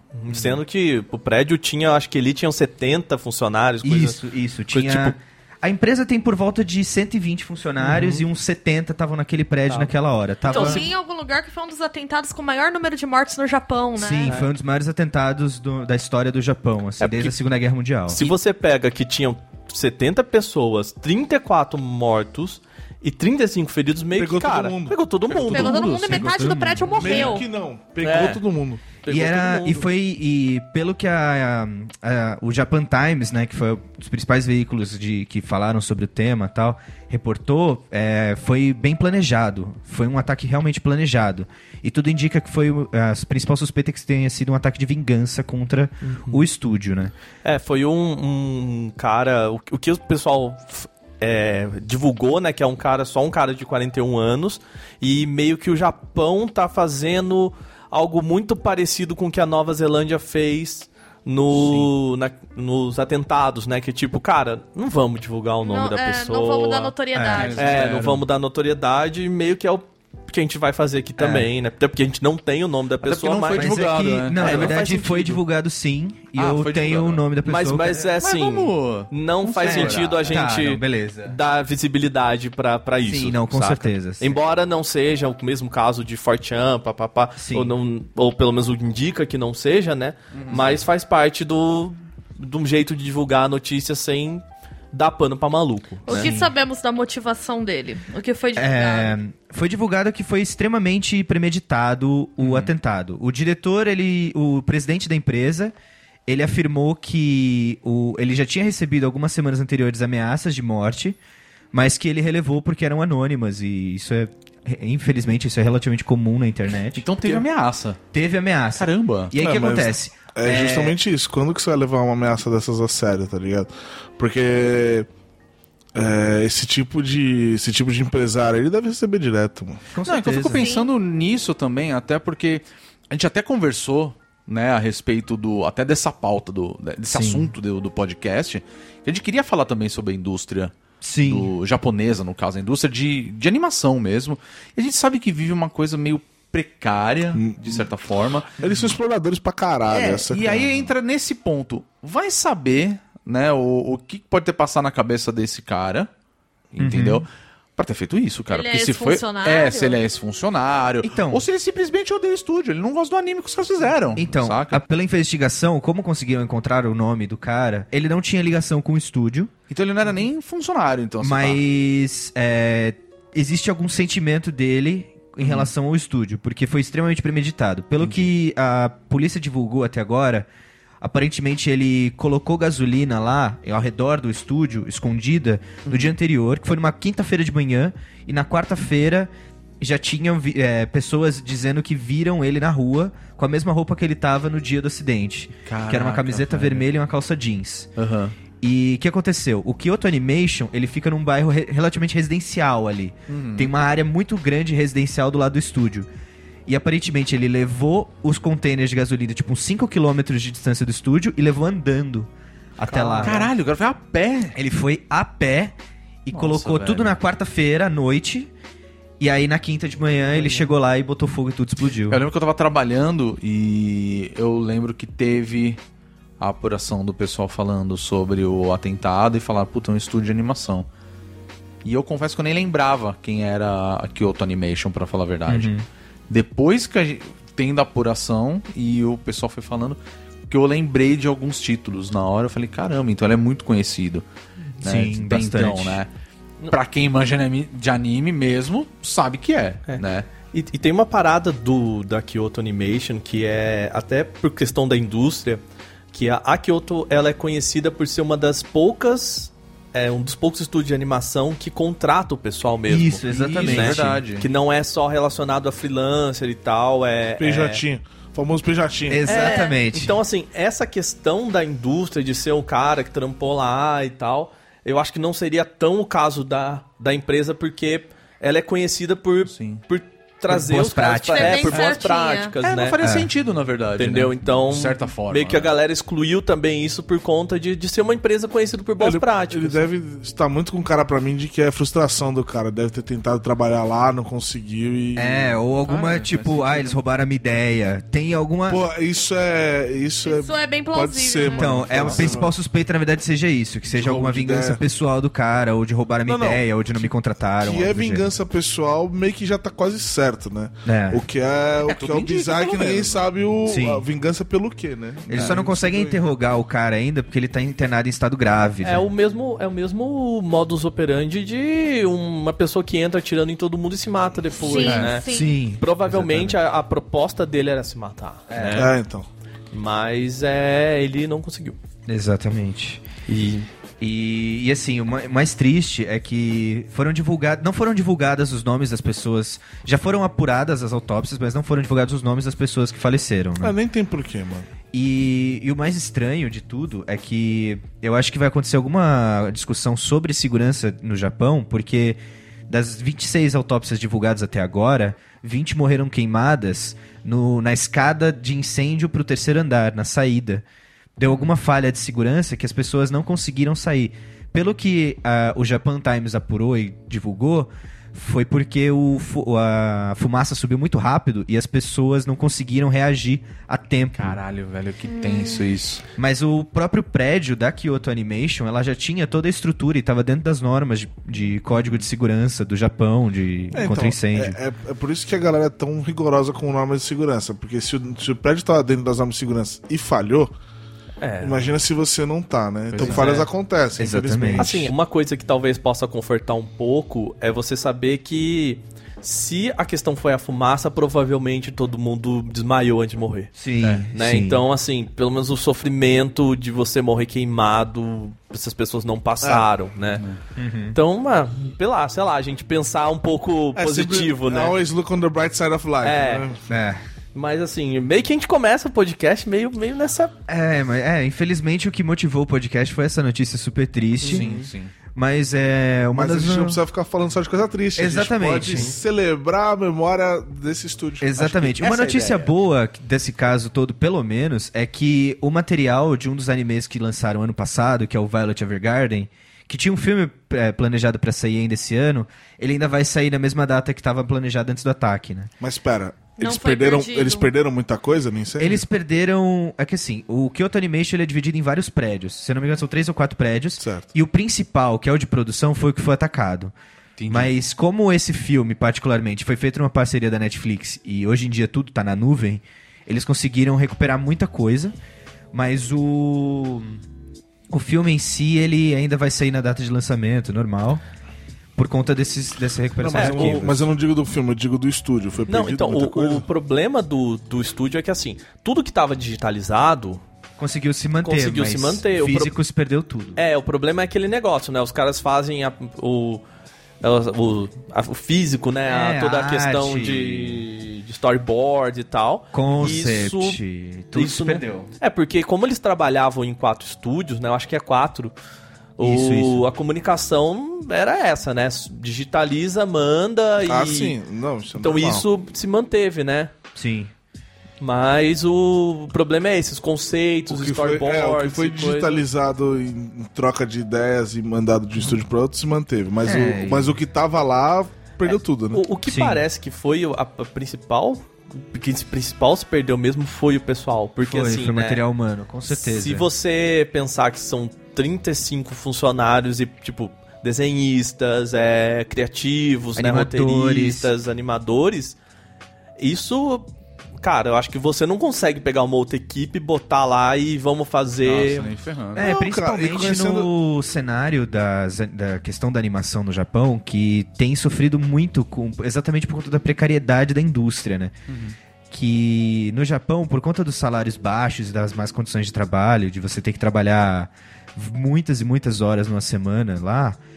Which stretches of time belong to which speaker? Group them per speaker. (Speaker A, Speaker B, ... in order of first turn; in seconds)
Speaker A: 0.1-4.2, 4.7-5.2, 7.8-8.2, 10.5-10.8, 14.2-14.5, 18.1-26.2, 28.0-29.9, 46.0-46.4, 47.4-66.9, 67.5-75.4, 77.4-96.3, 212.8-213.5, 249.9-255.6, 256.1-267.8, 269.2-283.0, 283.9-289.9, 318.8-325.2, 325.8-328.8, 329.7-331.8, 333.3-333.7, 391.2-391.6, 393.0-393.5, 394.6-403.5, 404.1-410.2, 410.9-414.8, 416.0-416.4, 417.3-420.3, 424.3-424.6, 428.7-429.0, 473.1-473.7, 475.5-480.2, 481.2-482.5, 483.4-486.4, 487.0-493.6, 494.1-498.3, 499.0-504.1, 504.8-506.5, 507.8-512.2, 518.2-525.0, 525.7-535.2, 536.0-536.7, 537.2-541.7
Speaker B: 0.3-0.6, 3.8-10.8, 13.9-18.2, 25.8-27.3, 29.1-47.1, 67.1-68.2, 71.2-71.5, 73.5-78.0, 79.6-81.3, 83.0-84.4, 87.3-87.7, 96.1-96.5, 98.5-105.7, 106.3-111.2, 111.7-117.4, 118.1-121.0, 129.9-130.7, 137.1-137.5, 141.0-141.5, 149.9-150.4, 156.8-157.2, 161.0-161.4, 164.2-169.5, 171.2-180.5, 181.0-197.9, 198.6-206.1, 206.7-213.4, 214.5-218.5, 219.2-222.2, 235.5-235.8, 244.8-246.0, 262.9-264.3, 269.1-270.1, 280.5-281.7, 283.0-283.3, 295.1-298.8, 301.4-308.3, 310.8-311.2, 313.6-314.1, 315.3-319.1, 325.0-326.6, 328.5-328.9, 332.1-333.0, 334.0-343.7, 344.9-360.6, 361.2-374.4, 376.1-384.6, 394.0-394.9, 403.6-404.6, 410.6-411.0, 416.7-417.0, 420.5-424.5, 425.1-426.8, 427.9-428.9, 431.2-445.5, 448.6-456.7, 457.3-464.9, 465.5-467.0, 467.7-471.0, 471.8-473.9, 480.6-483.4, 488.9-490.6, 492.5-494.9, 499.0-499.6, 506.7-507.1, 516.2-517.0, 519.0-519.4, 524.2-526.3, 533.0-534.1, 542.1-551.1, 551.9-560.2
Speaker C: 10.5-14.3, 25.5-27.5, 65.6-67.7, 96.0-99.1, 130.6-130.9, 158.5-160.0, 269.3-269.7, 281.3-282.5, 300.2-301.9, 324.6-325.6, 375.1-375.7, 446.4-447.5
Speaker D: 24.1-25.0, 26.9-28.8, 119.3-125.1, 125.9-129.8, 147.3-147.9, 148.6-150.7, 267.4-269.3, 289.0-295.6, 298.7-302.5, 303.9-304.8, 306.2-316.3, 328.7-329.3, 343.6-344.7, 383.7-390.5, 391.4-394.9, 409.4-409.7, 413.7-416.6, 426.1-431.3, 445.6-448.8, 453.8-454.1, 473.0-476.4, 503.6-505.3, 510.5-518.8, 542.2-543.5
Speaker E: 25.3-26.3, 61.5-61.9, 67.3-68.1, 73.0-74.8, 76.3-77.2, 78.2-80.5, 90.3-90.8, 102.4-102.7, 116.9-118.0, 118.8-119.3, 130.1-148.9, 150.3-156.1, 156.7-164.8, 169.7-171.6, 175.4-175.7, 178.0-178.3, 185.8-186.1, 195.7-196.9, 198.0-198.3, 203.3-203.7, 213.2-214.5, 216.3-217.1, 222.1-225.8, 226.4-230.8, 231.8-235.7, 236.3-244.2, 244.8-246.1, 246.7-250.3, 263.3-264.4, 279.4-279.8, 282.6-285.7, 295.8-297.0, 302.0-302.3, 311.9-313.3, 374.1-376.0, 392.9-393.3, 424.2-424.9, 431.4-432.5, 457.2-457.5, 541.2-542.3, 551.3-551.5